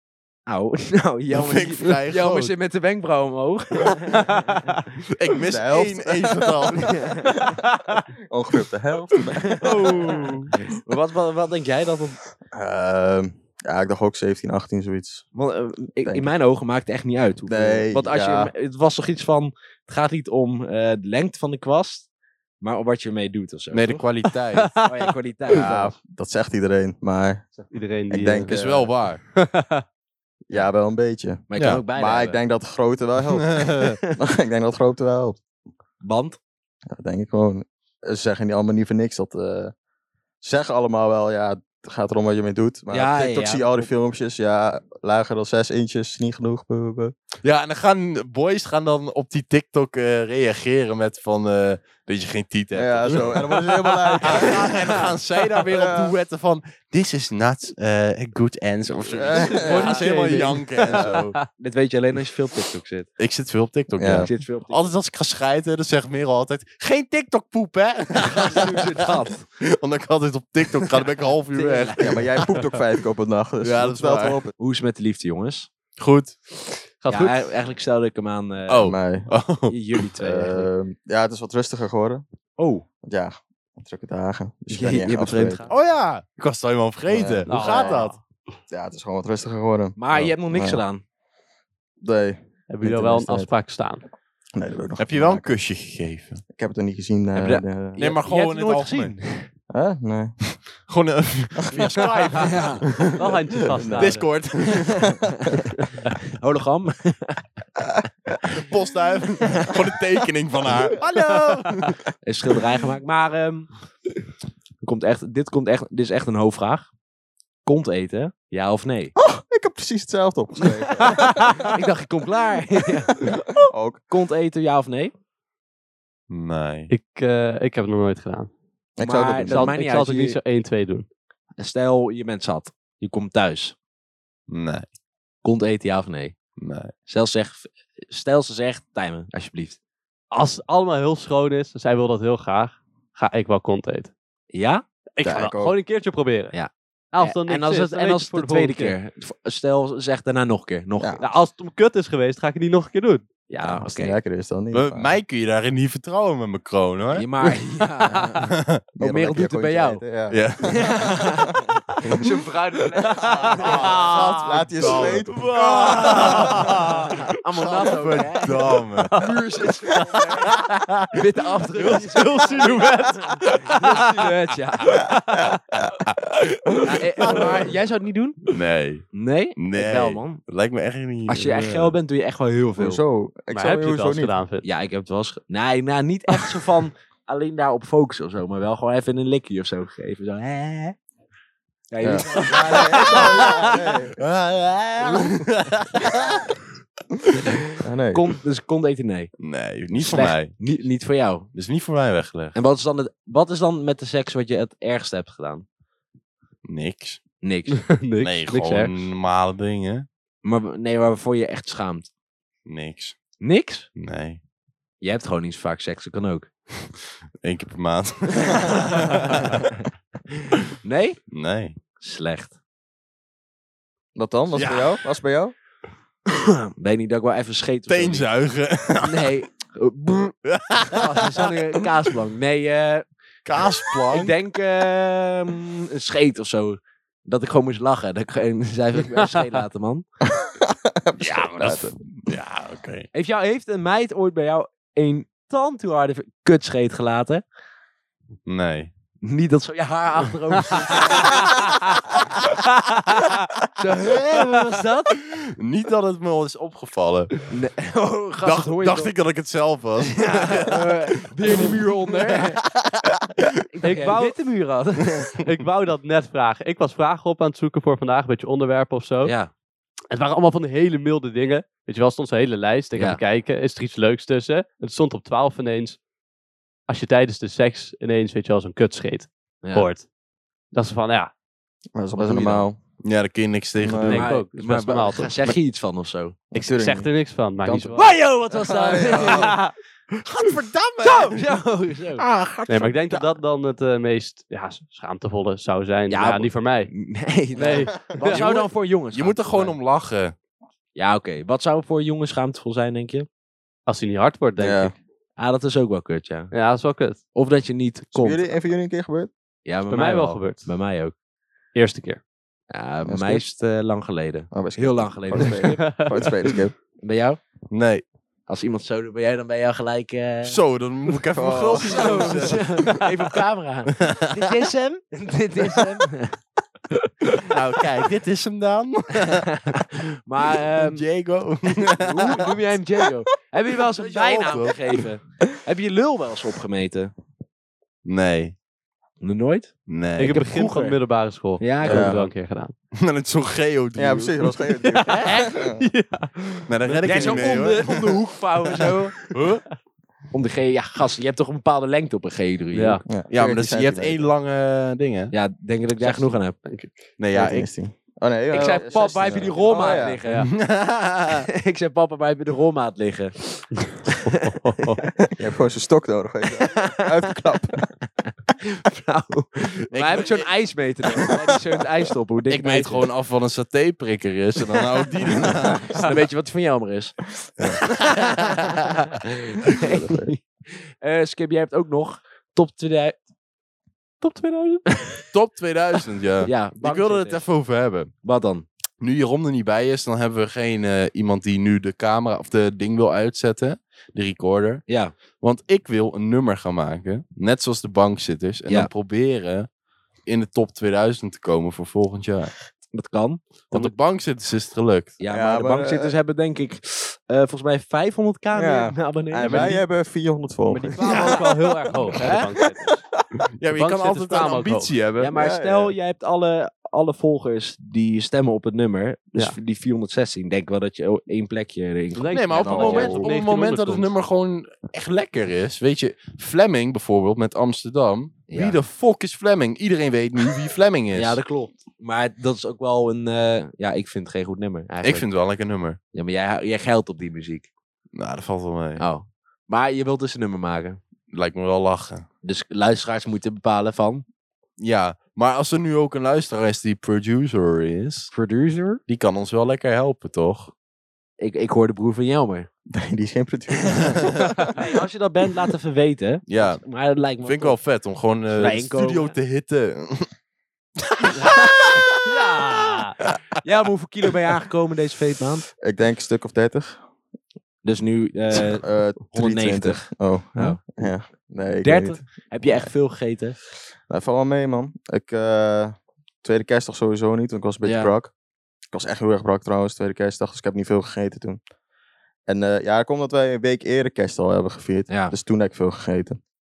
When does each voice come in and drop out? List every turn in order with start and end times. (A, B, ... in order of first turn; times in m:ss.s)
0:00.5-0:04.7 A
0:01.3-0:02.5 B
0:04.1-0:04.8 C
0:05.1-0:07.0 B
0:05.5-0:07.6 D
0:06.8-0:07.3 A
0:07.6-0:08.0 C
0:08.3-0:10.2 D
0:09.6-0:10.5 C
0:09.7-0:12.2 A
0:12.5-0:15.2 D
0:15.3-0:22.1 A
0:17.5-0:18.5 D
0:22.6-0:24.0 A
0:23.7-0:24.8 B
0:24.6-0:25.1 C
0:24.8-0:25.9 A
0:25.5-0:27.5 D
0:27.7-0:28.5 C
0:28.1-0:28.9 D
0:28.5-0:29.2 B
0:29.3-0:29.8 C
0:30.5-0:35.4 D
0:31.5-0:32.4 A
0:31.6-0:31.8 B
0:33.4-0:34.0 B
0:36.0-0:36.4 A
0:36.9-0:39.7 D
0:40.4-0:47.1 D
0:42.9-0:43.8 A
0:47.4-0:53.5 B
0:52.7-0:55.0 D
0:54.2-1:01.4 B
0:54.2-0:54.7 A
0:55.7-0:56.1 D
0:59.2-1:00.0 D
0:59.3-1:01.4 C
0:59.7-1:00.0 A
1:01.5-1:03.1 A
1:03.2-1:12.6 B
1:04.0-1:04.3 D
1:04.1-1:04.9 A
1:08.2-1:09.4 A
1:11.5-1:12.2 A
1:12.0-1:14.5 D
1:13.6-1:14.4 B
1:14.6-1:15.7 A
1:16.0-1:16.8 B
1:17.0-1:17.5 C
1:17.1-1:18.9 A
1:18.7-1:20.0 B
1:18.8-1:19.3 D
1:19.7-1:20.7 A
1:20.2-1:22.2 D
1:22.6-1:22.8 A
1:23.0-1:25.6 D
1:24.7-1:25.7 A
1:25.7-1:28.2 B
1:27.1-1:28.0 D
1:27.5-1:28.2 C
1:28.7-1:30.8 D
1:30.0-1:31.0 A
1:32.0-1:33.5 D
1:32.7-1:34.0 C
1:34.5-1:35.4 D
1:35.0-1:36.4 B
1:36.5-1:38.0 D
1:37.4-1:39.5 A
1:38.0-1:39.2 B
1:39.7-1:40.4 D
1:40.9-1:43.3 B
1:41.6-1:42.0 D
1:42.4-1:42.8 A
1:43.1-1:44.3 C
1:43.7-1:44.2 D
1:44.0-1:45.2 B
1:46.2-1:47.4 A
1:48.5-1:52.0 B
1:52.2-1:53.8 A
1:54.8-1:56.9 A
1:57.6-1:59.1 A
1:59.2-2:01.7 D
2:00.7-2:03.3 A
2:03.2-2:04.0 D
2:04.1-2:05.1 A
2:06.3-2:06.9 B
2:06.9-2:08.5 C
2:09.0-2:09.7 D
2:09.0-2:10.4 A
2:09.4-2:11.1 C
2:11.6-2:13.8 A
2:14.5-2:14.9 B
2:15.4-2:16.4 A
2:16.6-2:16.9 B
2:17.1-2:19.8 A
2:20.3-2:24.1 C
2:24.5-2:24.8 A
2:25.2-2:26.6 C
2:25.2-2:25.8 D
2:26.5-2:31.2 A
2:27.1-2:29.0 C
2:31.2-2:33.2 C
2:33.5-2:34.2 A
2:33.6-2:35.1 D
2:34.7-2:37.3 B
2:37.2-2:38.4 A
2:38.4-2:38.8 B
2:39.0-2:42.3 D
2:39.0-2:40.0 A
2:40.3-2:41.2 B
2:40.7-2:44.4 A
2:43.1-2:43.8 C
2:43.1-2:46.7 D
2:43.6-2:49.2 B
2:45.3-2:47.1 C
2:46.8-2:50.5 A
2:49.1-2:50.6 C
2:50.4-2:51.1 B
2:51.1-2:55.2 A
2:51.7-2:55.8 C
2:56.7-2:57.5 C
2:56.8-2:58.5 A
2:57.2-2:57.7 B
2:58.5-3:02.0 B
2:59.1-3:00.4 A
3:01.3-3:03.0 A
3:02.8-3:04.3 D
3:03.5-3:04.7 C
3:04.6-3:11.0 A
3:11.9-3:13.8 A
3:12.0-3:14.2 D
3:12.4-3:13.4 B
3:14.2-3:16.5 B
3:17.8-3:18.2 D
3:18.1-3:19.3 A
3:19.4-3:20.5 B
3:20.0-3:21.5 A
3:21.5-3:22.5 B
3:22.5-3:25.6 A
3:26.6-3:27.2 B
3:27.4-3:27.9 A
3:27.7-3:28.9 C
3:28.2-3:30.0 B
3:30.4-3:32.1 A
3:32.7-3:33.3 B
3:33.4-3:33.9 A
3:34.0-3:34.4 B
3:35.0-3:36.5 A
3:37.4-3:39.7 B
3:40.8-3:41.2 A
3:41.3-3:41.8 B
3:42.0-3:42.6 A
3:44.2-3:45.5 D
3:44.5-3:45.0 B
3:46.3-3:48.3 A
3:47.9-3:49.3 B
3:49.0-3:50.4 A
3:50.4-3:51.5 B
3:50.9-3:53.0 A
3:53.4-3:54.4 B
3:54.1-4:00.0 A
4:00.2-4:02.0 D
4:01.2-4:03.1 B
4:03.1-4:07.4 A
4:08.5-4:08.9 B
4:09.2-4:12.6 A
4:13.8-4:15.2 A
4:14.0-4:14.4 B
4:15.2-4:17.4 B
4:17.5-4:19.1 A
4:18.4-4:23.6 B
4:20.1-4:22.6 A
4:23.7-4:25.4 A
4:23.8-4:24.4 C
4:25.3-4:29.3 C
4:29.2-4:29.5 A
4:30.1-4:36.0 C
4:36.9-4:40.0 C
4:40.7-4:41.3 C
4:42.0-4:42.8 D
4:42.2-4:42.6 A
4:43.0-4:44.2 B
4:43.8-4:44.2 D
4:44.0-4:45.5 C
4:44.0-4:46.4 A
4:46.5-4:47.1 D
4:46.6-4:48.2 C
4:47.6-4:49.6 D
4:48.0-4:49.6 A
4:49.0-4:49.7 C
4:50.2-4:51.5 B
4:51.0-4:52.2 A
4:52.2-4:53.0 B
4:52.7-4:56.9 C
4:56.1-4:59.8 A
4:57.5-4:58.5 C
4:58.3-5:00.4 B
5:01.0-5:03.3 A
5:03.9-5:04.9 C
5:04.6-5:04.9 D
5:05.4-5:06.5 A
5:06.5-5:07.2 C
5:07.3-5:08.4 A
5:08.2-5:09.3 D
5:09.6-5:11.1 A
5:09.9-5:10.7 C
5:11.8-5:12.2 C
5:12.7-5:16.0 A
5:13.0-5:13.4 D
5:14.5-5:16.8 D
5:15.4-5:16.3 C
5:17.0-5:17.4 A
5:17.7-5:18.0 B
5:18.5-5:20.6 A
5:20.4-5:23.0 B
5:21.3-5:22.5 D
5:21.8-5:26.4 A
5:24.0-5:24.4 B
5:27.4-5:29.5 B
5:29.6-5:31.0 A
5:30.5-5:32.6 B
5:31.8-5:37.1 A
5:33.9-5:35.0 B
5:38.0-5:38.5 B
5:39.2-5:41.0 A
5:39.9-5:40.7 B
5:40.2-5:42.7 C
5:41.6-5:42.2 A
5:41.8-5:42.2 D
5:42.9-5:44.4 B
5:44.0-5:45.8 D
5:44.8-5:47.9 C
5:46.7-5:48.2 B
5:47.0-5:49.2 A
5:48.7-5:49.6 C
5:49.3-5:49.6 B
5:50.3-5:53.0 A
5:52.7-5:53.0 C
5:53.0-5:54.3 D
5:53.3-5:55.3 B
5:55.3-5:56.6 A
5:56.0-5:57.0 C
5:57.2-5:57.7 B
5:57.3-6:00.2 D
5:58.5-6:00.5 A
5:59.6-6:00.5 C
6:00.4-6:01.5 B
6:01.5-6:03.9 A
6:04.2-6:05.0 C
6:05.3-6:07.9 D
6:06.6-6:07.1 A
6:08.7-6:13.1 A
6:09.9-6:10.5 B
6:12.5-6:16.1 B
6:15.3-6:17.4 A
6:17.6-6:18.8 B
6:18.5-6:23.2 A
6:19.8-6:20.3 D
6:24.2-6:24.9 C
6:24.9-6:25.2 A
6:25.3-6:28.1 B
6:26.4-6:27.4 A
6:28.2-6:28.7 A
6:29.0-6:34.8 B
6:34.9-6:35.1 A
6:35.4-6:39.7 B
6:40.2-6:42.5 B
6:42.9-6:43.9 A
6:43.7-6:45.2 B
6:45.2-6:49.8 A
6:45.3-6:46.1 D
6:48.5-6:51.3 D
6:50.7-6:52.5 A
6:50.8-6:53.0 C
6:51.0-6:51.4 B
6:53.6-6:55.3 B
6:53.8-6:54.9 C
6:55.2-7:02.4 A
6:55.3-6:56.0 D
7:02.2-7:04.1 C
7:02.3-7:11.4 B
7:02.6-7:03.2 D
7:08.5-7:08.8 A
7:11.1-7:15.3 A
7:15.0-7:16.0 B
7:16.1-7:17.7 A
7:18.1-7:19.0 B
7:19.0-7:21.0 A
7:21.3-7:22.2 B
7:22.4-7:24.2 A
7:24.8-7:28.3 B
7:28.3-7:29.0 A
7:29.1-7:30.7 B
7:31.4-7:32.7 A
7:32.9-7:34.5 D
7:34.6-7:37.8 A
7:36.5-7:36.8 B
7:37.4-7:40.3 B
7:38.5-7:39.3 A
7:41.4-7:42.0 A
7:42.2-7:43.2 C
7:43.5-7:45.7 A
7:45.8-7:47.0 D
7:47.8-7:51.1 A
7:48.5-7:52.9 D
7:51.8-7:53.6 A
7:54.1-7:58.3 D
7:57.8-7:58.1 A
7:58.9-8:01.6 D
8:02.5-8:06.4 D
8:05.1-8:05.4 A